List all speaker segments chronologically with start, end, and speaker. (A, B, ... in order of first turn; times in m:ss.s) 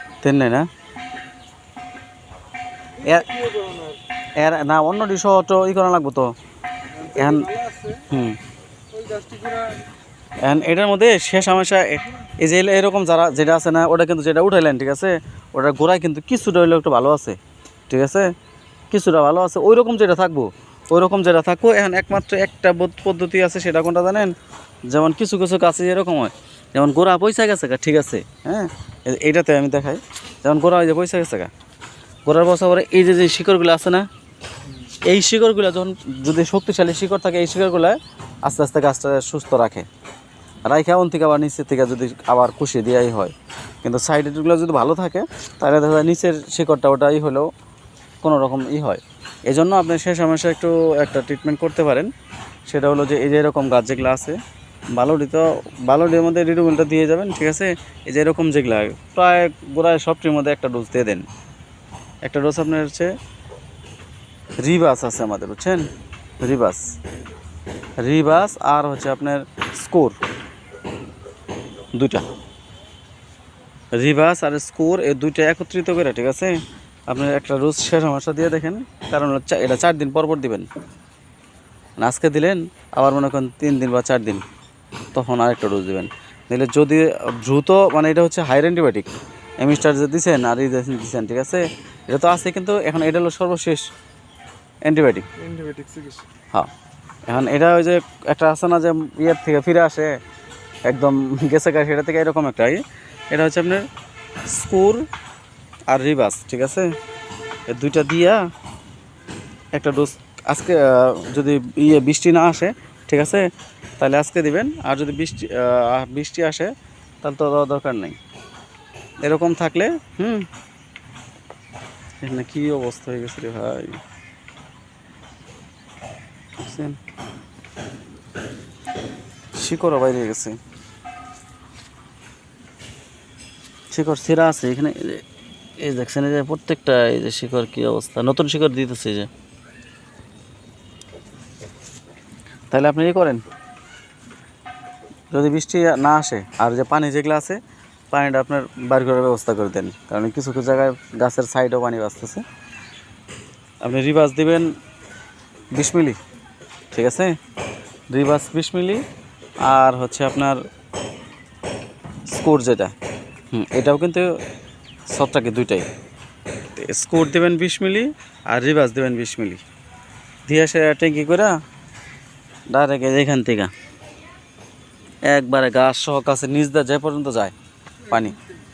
0:00.2-0:00.7 A
0:03.0-0:03.3 A
0:03.2-0:04.0 B
0:04.4-0:06.3 A
0:07.0-0:08.0 B
0:07.1-0:07.5 A
0:08.1-0:08.4 A
0:08.9-0:09.8 B
0:10.4-0:17.4 A
0:17.9-0:18.3 A
0:18.9-0:24.3 A
0:24.9-0:31.5 A
0:32.2-0:34.0 A
0:35.1-0:39.9 A
0:40.6-0:47.5 A
0:48.2-0:52.1 A
0:52.7-0:54.4 A
0:54.9-1:01.2 A
1:02.2-1:03.1 A
1:04.6-1:05.8 A
1:06.4-1:06.9 A
1:08.0-1:10.2 A
1:11.9-1:12.2 A
1:13.9-1:20.7 A
1:22.0-1:24.4 A
1:25.1-1:29.1 A
1:29.6-1:33.8 A
1:34.8-1:35.3 A
1:35.4-1:36.2 B
1:37.3-1:40.1 A
1:40.8-1:43.8 A
1:44.5-1:45.0 A
1:45.9-1:46.9 A
1:47.7-1:48.4 A
1:49.7-1:58.2 A
1:59.2-2:00.5 A
2:02.2-2:04.0 A
2:06.6-2:07.0 A
2:09.6-2:10.6 A
2:13.9-2:15.2 A
2:15.8-2:19.3 A
2:22.7-2:23.4 A
2:25.3-2:27.6 A
2:28.1-2:32.4 A
2:33.8-2:34.7 A
2:35.7-2:36.2 A
2:36.9-2:37.4 A
2:38.1-2:39.0 A
2:39.6-2:40.6 A
2:42.3-2:42.9 A
2:43.5-2:44.4 A
2:45.1-2:45.9 A
2:46.7-2:49.6 A
2:50.4-2:51.6 A
2:52.7-2:53.7 A
2:55.2-2:57.5 A
2:58.1-2:58.4 A